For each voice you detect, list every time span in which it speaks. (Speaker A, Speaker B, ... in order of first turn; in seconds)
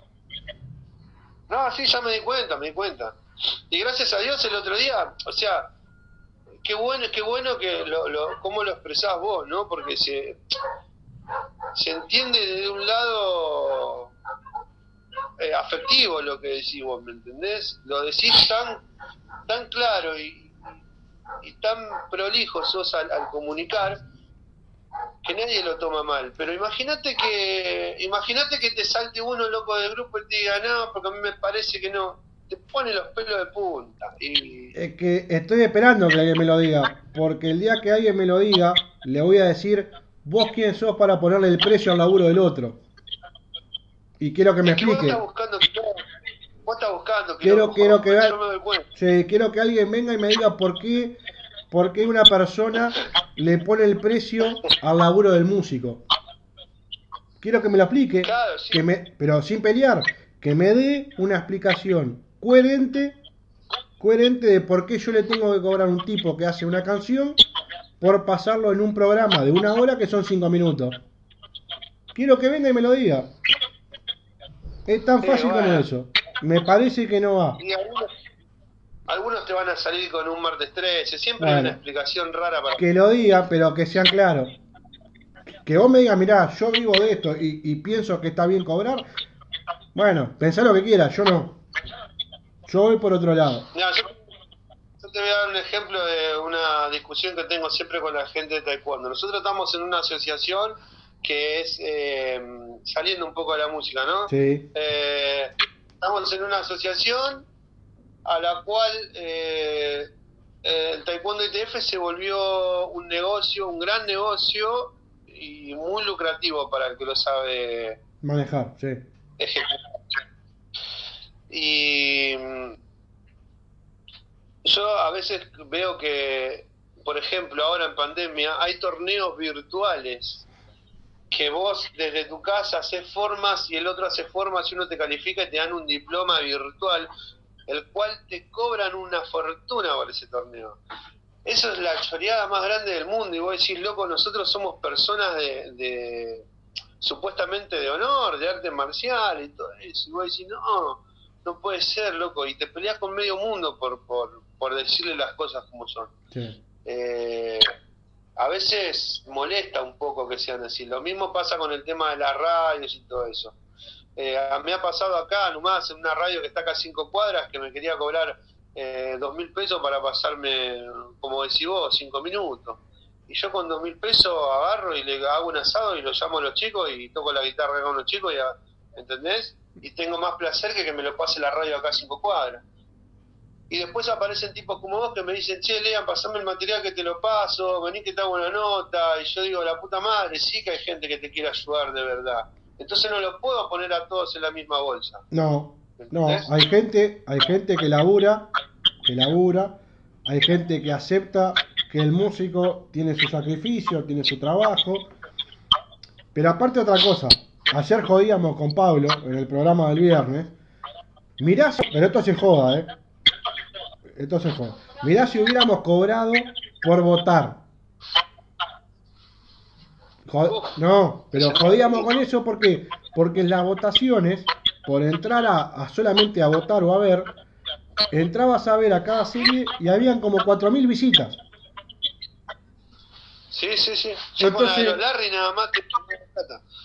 Speaker A: 1.5-3.2, 3.7-5.7, 6.6-10.4, 11.7-14.1, 15.4-18.8, 19.5-20.7, 21.4-24.0, 25.2-34.7, 44.6-46.1, 46.6-48.9, 58.2-58.9, 75.2-75.9, 77.6-78.1, 79.1-82.8, 93.7-94.2, 95.0-107.5, 108.2-110.1, 110.6-118.0, 119.4-120.0, 121.5-122.8, 124.6-130.5, 131.3-137.1, 137.7-140.8, 141.4-146.5, 147.0-156.1, 156.8-157.7, 158.4-163.6, 164.2-182.6, 183.7-195.2, 196.0-196.5, 220.4-220.8, 221.3-222.1, 233.5-236.6
Speaker B: 34.7-42.8, 44.2-45.2, 47.4-48.4, 48.9-51.1, 51.7-56.0, 57.4-63.1, 64.0-67.4, 68.0-71.0, 72.1-73.3, 74.8-77.6, 81.4-81.8, 82.8-84.5, 85.6-89.0, 89.9-91.6, 92.7-93.7, 104.3-104.7, 118.2-119.0, 156.3-156.6, 195.3-198.5, 199.0-205.1, 206.3-210.5, 211.4-212.9, 214.1-217.6, 220.2-227.3, 228.1-231.4, 234.4-235.0